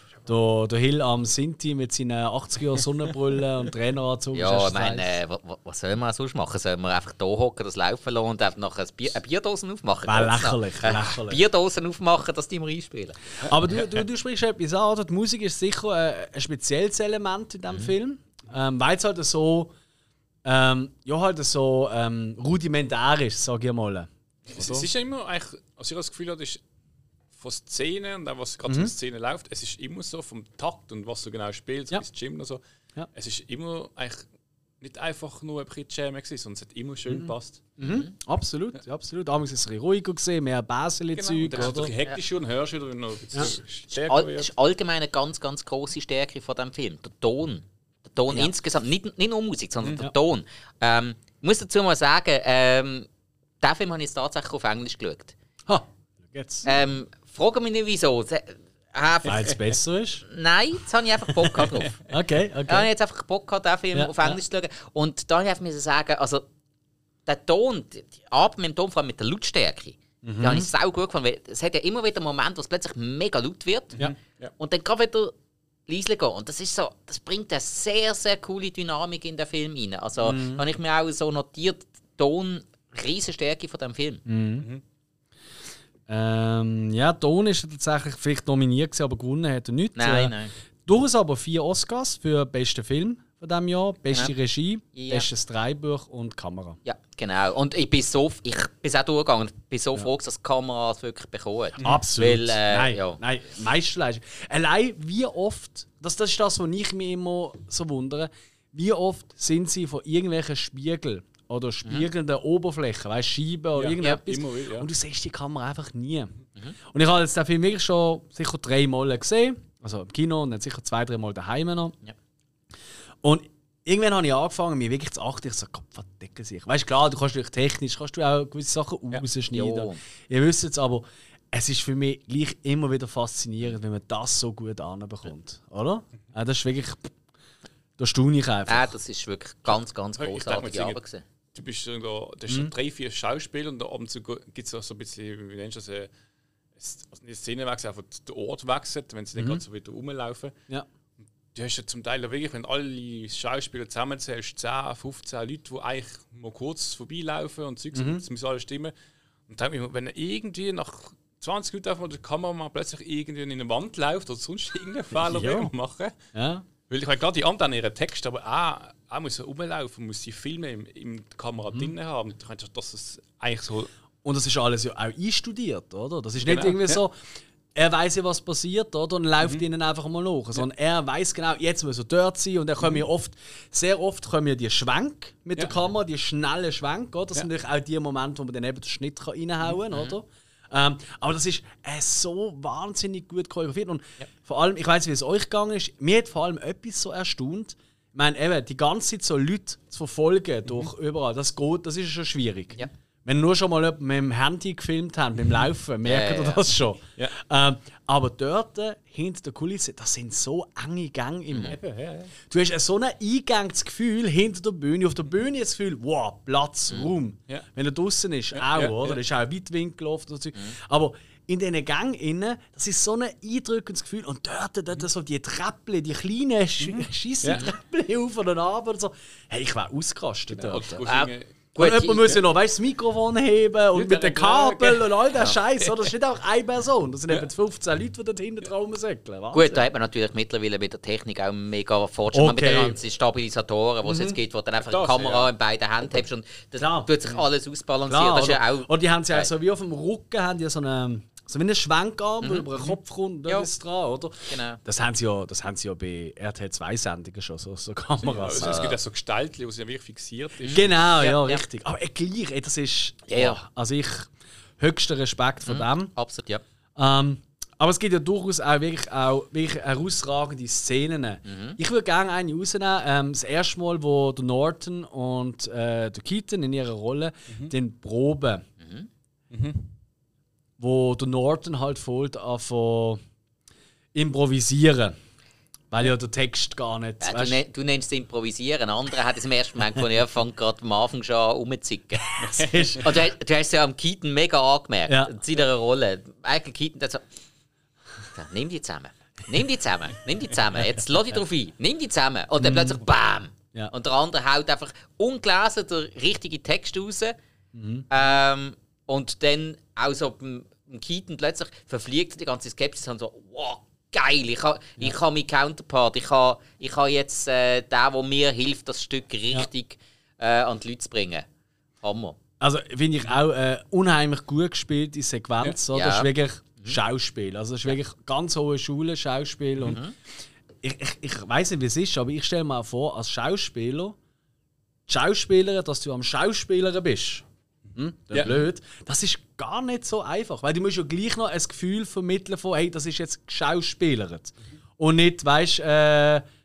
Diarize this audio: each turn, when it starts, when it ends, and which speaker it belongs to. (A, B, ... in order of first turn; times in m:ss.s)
0:00.2-0:05.1 A
0:04.3-0:13.4 B
0:10.0-0:11.4 A
0:13.4-0:19.7 A
0:20.4-0:24.9 A
0:24.5-0:26.6 C
0:27.3-0:32.6 C
0:28.6-0:28.9 A
0:33.1-0:34.2 C
0:34.8-0:37.8 C
0:37.1-0:41.9 A
0:37.8-0:38.1 B
0:41.1-0:44.5 C
0:43.9-0:53.1 B
0:53.6-0:55.3 B
0:55.7-0:56.7 A
0:56.6-0:59.5 B
0:59.3-1:00.2 A
1:00.3-1:02.0 B
1:01.5-1:02.9 A
1:02.7-1:06.4 B
1:03.9-1:04.4 A
1:07.2-1:14.0 B
1:10.2-1:10.7 A
1:14.0-1:14.5 C
1:14.6-1:15.3 B
1:15.9-1:24.2 B
1:20.2-1:20.6 A
1:24.2-1:24.7 A
1:26.1-1:30.3 A
1:30.0-1:30.5 B
1:30.8-1:36.8 A
1:34.9-1:35.3 B
1:36.8-1:43.2 B
1:41.8-1:56.3 A
1:53.8-1:54.9 C
1:56.9-2:01.9 A
2:03.2-2:17.1 A
2:09.5-2:10.0 B
2:18.0-2:18.9 A
2:18.6-2:21.2 B
2:20.2-2:21.0 C
2:21.5-2:26.1 C
2:26.8-2:30.5 C
2:31.5-2:38.9 C
2:37.9-2:38.2 A
2:39.5-2:46.1 C
2:45.1-2:45.7 A
2:46.3-2:46.6 A
2:46.9-2:53.9 C
2:54.2-2:57.2 A
2:56.4-2:57.0 C
2:57.7-3:31.8 A
3:26.0-3:26.6 B
3:31.5-3:31.8 B
3:31.7-3:32.3 C
3:32.4-3:51.0 A
3:38.5-3:39.2 C
3:46.8-3:47.6 C
3:50.5-3:51.5 C
3:51.0-3:52.3 B
3:51.8-3:59.8 A
3:53.9-3:55.1 C
3:59.5-4:09.5 B
4:02.3-4:03.0 A
4:04.0-4:04.4 A
4:04.8-4:05.5 C
4:06.8-4:07.1 A
4:08.1-4:18.9 A
4:12.4-4:12.7 B
4:14.5-4:14.8 B
4:18.2-4:20.9 C
4:18.6-4:19.0 B
4:20.6-4:21.6 B
4:20.7-4:26.1 A
4:23.3-4:23.6 B
4:25.6-4:26.6 B
4:27.0-4:38.6 A
4:31.4-4:31.8 B
4:38.8-4:39.1 B
4:39.5-4:39.9 C
4:40.8-4:43.2 A
4:44.1-4:45.1 A
4:45.9-4:47.6 A
4:47.2-4:52.3 B
4:52.3-4:53.1 A
4:52.4-4:53.0 C
4:53.0-4:57.2 B
4:55.1-4:55.4 A
4:58.3-5:07.4 B
5:02.6-5:03.0 A
5:07.7-5:08.1 A
5:08.1-5:21.4 B
5:22.0-5:22.4 B
5:22.6-5:30.0 A
5:25.9-5:26.3 B
5:29.8-5:30.1 B
5:30.8-5:34.2 A
5:35.1-5:46.4 A
5:38.3-5:38.6 C